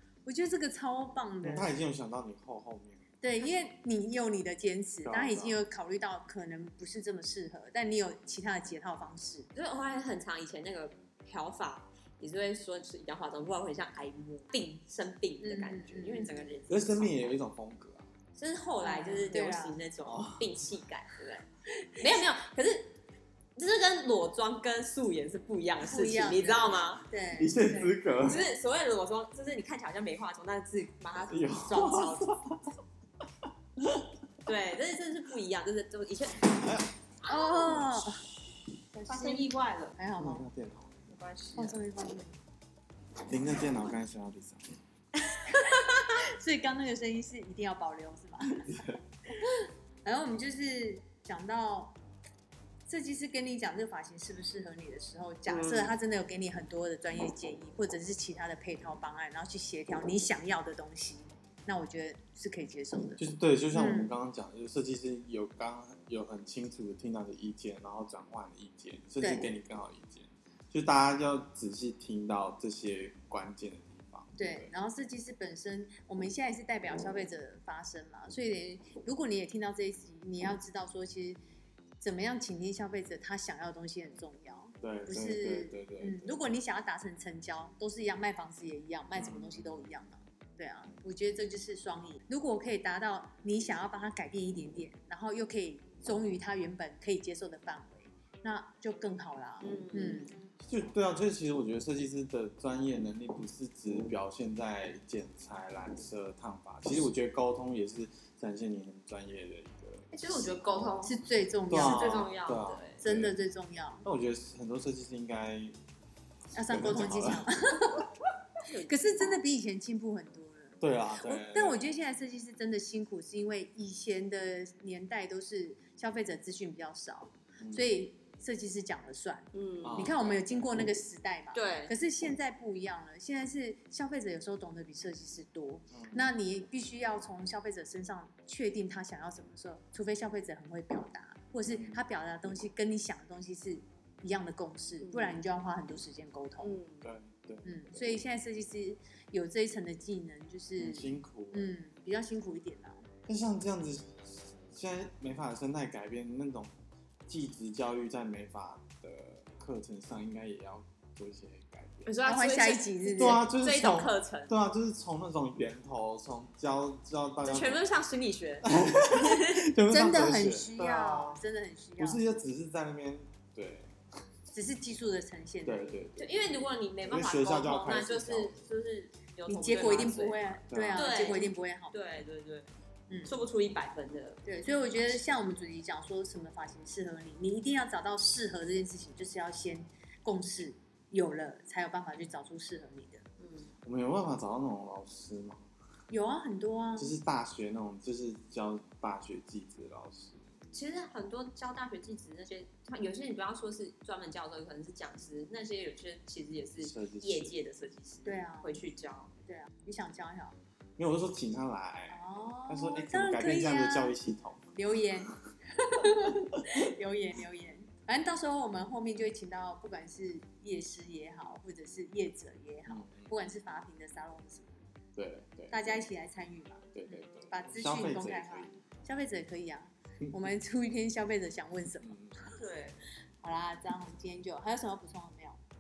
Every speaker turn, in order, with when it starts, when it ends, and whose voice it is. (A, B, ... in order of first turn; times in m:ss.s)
0:00.3-0:01.8 A
0:01.4-0:03.0 B
0:03.2-0:09.5 A
0:03.4-0:03.7 C
0:05.0-0:05.6 B
0:09.6-0:17.3 C
0:15.4-0:16.5 A
0:16.7-0:18.1 B
0:18.4-0:21.5 C
0:18.8-0:19.8 A
0:20.1-0:20.5 B
0:22.0-0:22.9 C
0:23.6-0:27.0 C
0:25.9-0:27.9 A
0:27.4-0:28.5 B
0:28.2-0:32.4 C
0:31.3-0:32.6 B
0:33.8-0:34.1 B
0:34.5-0:36.6 C
0:36.5-0:36.9 B
0:37.2-0:38.3 C
0:37.2-0:38.2 A
0:38.9-0:40.4 A
0:39.1-0:40.0 C
0:40.2-0:41.0 B
0:41.1-0:41.8 C
0:41.6-0:42.4 A
0:43.3-0:44.8 B
0:45.2-0:46.1 C
0:45.5-0:48.7 A
0:48.6-0:49.0 B
0:49.3-0:52.0 A
0:52.9-1:04.1 A
0:55.5-0:56.0 C
1:03.2-1:14.7 B
1:09.2-1:09.5 A
1:14.4-1:21.4 A
1:22.0-1:40.3 A
1:24.8-1:26.4 B
1:29.2-1:29.9 B
1:39.6-1:40.4 C
1:40.6-1:51.1 B
1:50.1-1:51.2 C
1:51.0-1:52.3 A
1:51.7-1:53.4 B
1:51.8-1:53.0 C
1:53.0-1:54.1 A
1:54.0-1:55.8 B
1:56.5-1:58.1 A
1:56.6-1:58.0 B
1:58.6-1:59.2 C
1:58.9-2:26.8 A
2:00.8-2:01.9 B
2:07.6-2:07.9 B
2:09.5-2:10.2 C
2:09.8-2:11.0 B
2:11.5-2:11.9 C
2:15.9-2:16.2 B
2:21.7-2:22.1 B
2:25.0-2:25.4 C
2:26.6-2:27.1 C
2:27.0-2:28.2 B
2:27.6-2:33.0 A
2:30.8-2:31.7 B
2:33.3-2:36.7 B
2:37.3-2:42.1 B
2:42.1-2:44.5 C
2:42.3-2:43.5 A
2:43.0-2:47.9 B
2:47.4-2:49.7 C
2:48.6-2:51.4 B
2:49.9-2:52.2 A
2:52.0-2:54.0 B
2:54.5-2:56.0 A
2:55.6-2:58.6 B
2:56.2-3:02.7 C
2:59.5-3:02.0 A
3:00.7-3:01.4 B
3:03.1-3:03.4 A
3:03.2-3:05.3 C
3:04.4-3:13.2 A
3:13.4-3:13.7 C
3:13.8-3:15.7 B
3:16.1-3:17.1 A
3:17.0-3:20.4 B
3:20.7-3:29.3 C
3:26.8-3:27.5 B
3:28.2-3:28.8 A
3:29.5-3:30.6 A
3:31.0-3:34.7 B
3:32.1-3:34.1 A
3:34.8-3:44.8 A
3:42.9-3:43.3 B
3:45.2-3:46.0 B
3:45.7-3:52.6 A
3:46.9-3:48.8 B
3:52.0-3:52.4 B
3:52.6-3:53.0 C
3:53.4-3:55.6 A